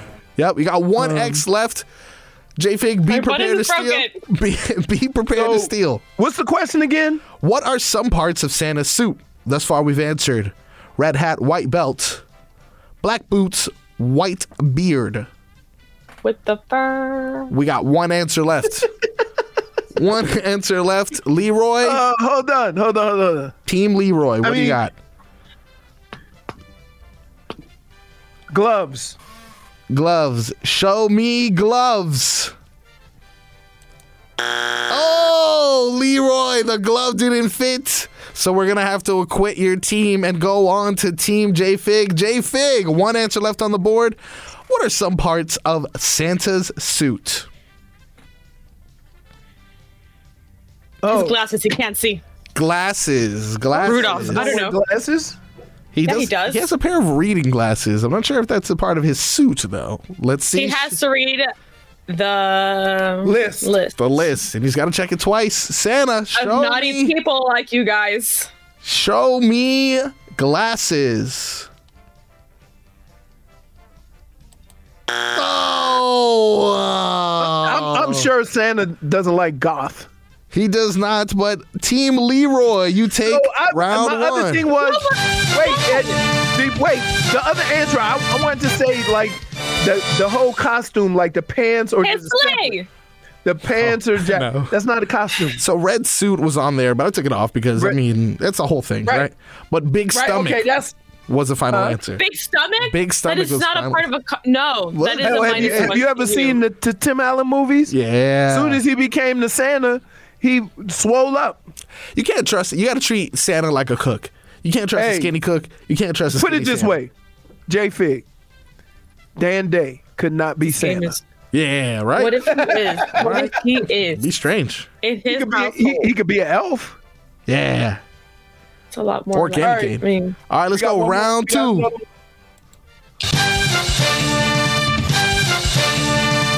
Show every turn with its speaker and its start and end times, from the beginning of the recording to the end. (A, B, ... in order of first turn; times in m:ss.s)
0:00.4-0:01.8 A
0:01.0-0:01.4 B
0:02.6-0:06.0 A
0:03.1-0:04.2 C
0:05.3-0:07.3 B
0:07.3-0:12.2 A
0:13.0-0:15.3 A
0:16.2-0:17.5 C
0:17.5-0:18.9 A
0:20.0-0:22.0 A
0:21.8-0:23.5 B
0:23.6-0:24.9 A
0:24.4-0:24.8 B
0:28.5-0:29.2 B
0:29.9-0:32.5 A
0:34.9-0:47.5 A
0:51.0-0:51.4 B
0:51.1-0:52.2 C
0:52.5-0:54.6 A
0:53.7-0:55.4 B
0:53.8-0:54.8 C
0:55.9-1:01.0 A
0:56.0-0:56.7 C
1:00.5-1:01.5 C
1:02.1-1:04.2 C
1:03.2-1:03.8 B
1:04.0-1:07.1 A
1:06.3-1:08.5 C
1:08.8-1:11.7 A
1:15.3-1:18.3 A
1:17.4-1:20.1 B
1:20.5-1:24.7 A
1:23.2-1:32.8 B
1:24.7-1:26.2 C
1:32.0-1:32.9 C
1:33.4-1:35.6 B
1:33.7-1:34.7 A
1:35.6-1:40.6 A
1:40.1-1:40.9 B
1:41.3-1:42.2 A
1:41.7-1:42.0 B
1:42.2-1:46.6 C
1:42.8-1:44.0 A
1:44.9-1:46.0 A
1:45.2-1:47.9 B
1:47.9-1:48.8 A
1:48.5-1:51.6 B
1:52.1-1:57.0 A
1:54.9-1:55.3 B
1:56.3-1:57.1 B
1:57.7-1:58.2 B
1:59.4-2:01.2 B
2:00.6-2:01.2 C
2:01.5-2:02.4 A
2:02.1-2:04.2 C
2:02.4-2:03.6 B
2:03.1-2:03.5 A
2:04.1-2:04.9 A
2:05.0-2:06.1 C
2:05.2-2:07.0 B
2:07.5-2:08.0 A
2:08.9-2:10.4 C
2:09.3-2:11.9 A
2:09.6-2:10.0 B
2:10.7-2:12.0 B